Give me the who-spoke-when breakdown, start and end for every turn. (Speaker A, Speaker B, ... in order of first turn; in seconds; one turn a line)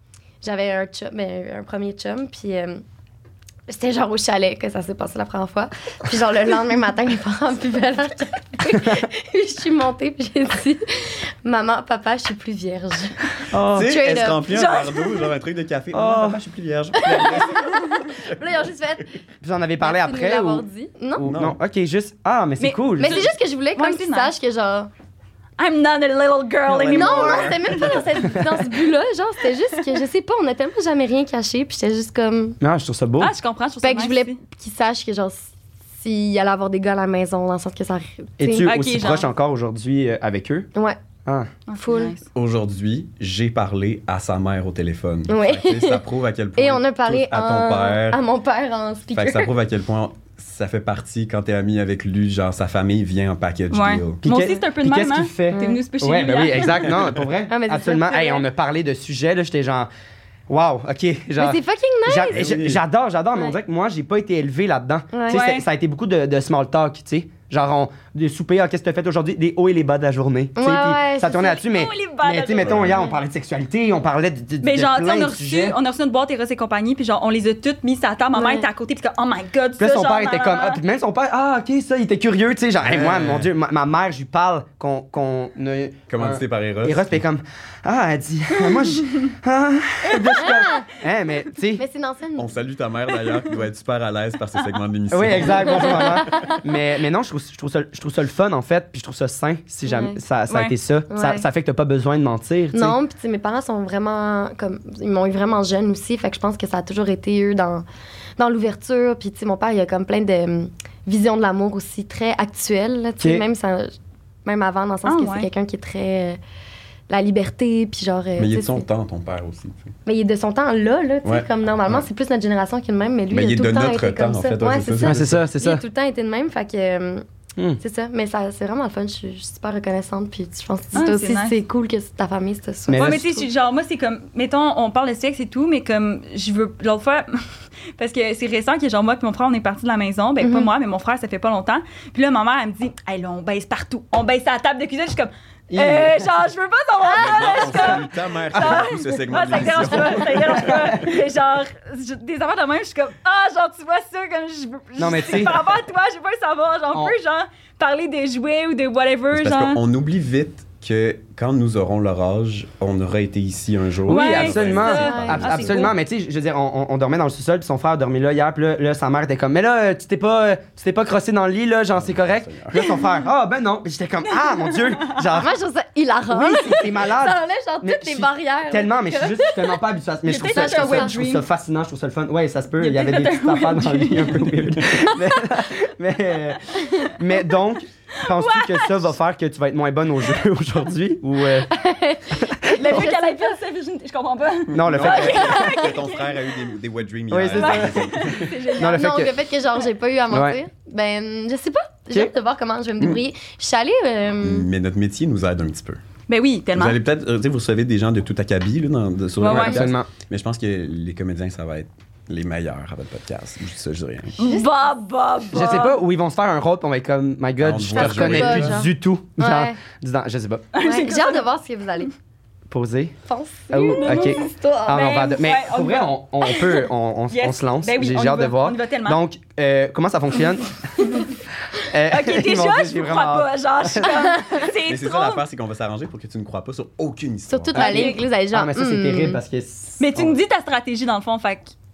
Speaker A: 0.4-2.8
Speaker A: 3.7-14.5
Speaker B: 13.5-13.9
Speaker C: 13.7-17.7
Speaker D: 14.5-15.3
Speaker B: 15.9-16.4
Speaker A: 17.0-19.2
Speaker B: 19.4-20.7
Speaker A: 19.8-21.3
Speaker B: 21.2-23.3
Speaker C: 21.2-21.6
Speaker D: 22.6-24.3
Speaker A: 23.0-24.9
Speaker D: 25.6-27.8
Speaker B: 26.7-27.6
Speaker A: 26.9-32.6
Speaker C: 27.7-28.0
Speaker B: 32.6-33.3
Speaker D: 33.2-34.4
Speaker A: 33.8-38.7
Speaker B: 38.4-40.7
Speaker D: 38.6-39.3
Speaker D: 41.7-42.3
Speaker A: 41.8-42.2
Speaker C: 42.3-48.2
Speaker A: 45.3-46.0
Speaker A: 46.6-49.5
Speaker C: 49.1-54.2
Speaker D: 53.7-56.9
Speaker B: 54.2-59.9
Speaker A: 55.5-55.8
Speaker A: 57.5-58.5
Speaker B: 60.5-75.8
Speaker A: 61.4-62.5
Speaker C: 62.3-62.8
Speaker A: 65.1-65.5
Speaker D: 65.3-65.6
Speaker A: 70.6-71.6
Speaker D: 71.4-73.1
Speaker C: 72.6-72.9
Speaker D: 74.6-80.8
Speaker A: 78.3-78.7
Speaker B: 79.8-91.8
Speaker C: 82.8-83.5
Speaker C: 86.1-87.2
Speaker D: 88.7-89.0
Speaker D: 90.1-90.6
Speaker A: 90.4-90.9
Speaker A: 91.8-92.6
Speaker C: 92.4-96.5
Speaker B: 95.1-103.0
Speaker A: 95.7-96.6
Speaker A: 99.8-100.2
Speaker D: 100.5-100.8
Speaker A: 101.1-101.5
Speaker A: 102.7-107.8
Speaker A: 108.4-116.4
Speaker B: 113.2-113.4
Speaker D: 115.0-115.5
Speaker A: 117.1-118.9
Speaker C: 118.4-119.9
Speaker A: 120.1-127.2
Speaker C: 121.2-122.0
Speaker C: 123.3-125.4
Speaker B: 125.0-125.8
Speaker A: 127.8-133.4
Speaker D: 130.9-131.6
Speaker B: 132.9-133.3
Speaker D: 133.0-159.8
Speaker A: 140.4-140.7
Speaker B: 145.7-146.3
Speaker A: 147.1-148.0
Speaker C: 147.1-150.7
Speaker B: 150.6-151.1
Speaker B: 155.0-155.8
Speaker C: 159.3-165.9
Speaker B: 164.1-175.6
Speaker D: 164.1-165.9
Speaker A: 164.9-165.7
Speaker C: 171.9-172.8
Speaker D: 174.4-175.1
Speaker A: 175.3-179.8
Speaker B: 176.3-191.7
Speaker D: 180.3-181.4
Speaker A: 180.4-181.1
Speaker D: 182.8-184.9
Speaker A: 186.8-187.1
Speaker D: 188.2-189.1
Speaker A: 191.6-193.6
Speaker B: 192.4-192.7
Speaker D: 192.7-196.6
Speaker B: 194.7-195.6
Speaker C: 194.8-198.5
Speaker A: 195.4-195.9
Speaker B: 197.3-199.3
Speaker D: 197.5-199.1
Speaker A: 198.8-204.7
Speaker B: 200.3-200.6
Speaker C: 204.4-206.0
Speaker D: 206.3-207.0
Speaker C: 206.7-214.4
Speaker D: 209.4-209.9
Speaker B: 209.5-210.1
Speaker D: 214.4-216.0
Speaker A: 214.4-214.7
Speaker B: 215.5-220.7
Speaker C: 217.6-218.8
Speaker A: 217.9-219.8
Speaker D: 220.7-221.5
Speaker A: 220.8-222.1
Speaker B: 222.7-223.2
Speaker A: 223.3-225.1
Speaker B: 223.7-231.0
Speaker D: 223.8-229.2
Speaker B: 231.8-234.2
Speaker D: 232.1-235.4
Speaker A: 234.1-234.6
Speaker C: 234.8-237.9
Speaker A: 237.5-239.4
Speaker D: 237.7-238.2
Speaker B: 237.8-240.4
Speaker D: 240.0-241.7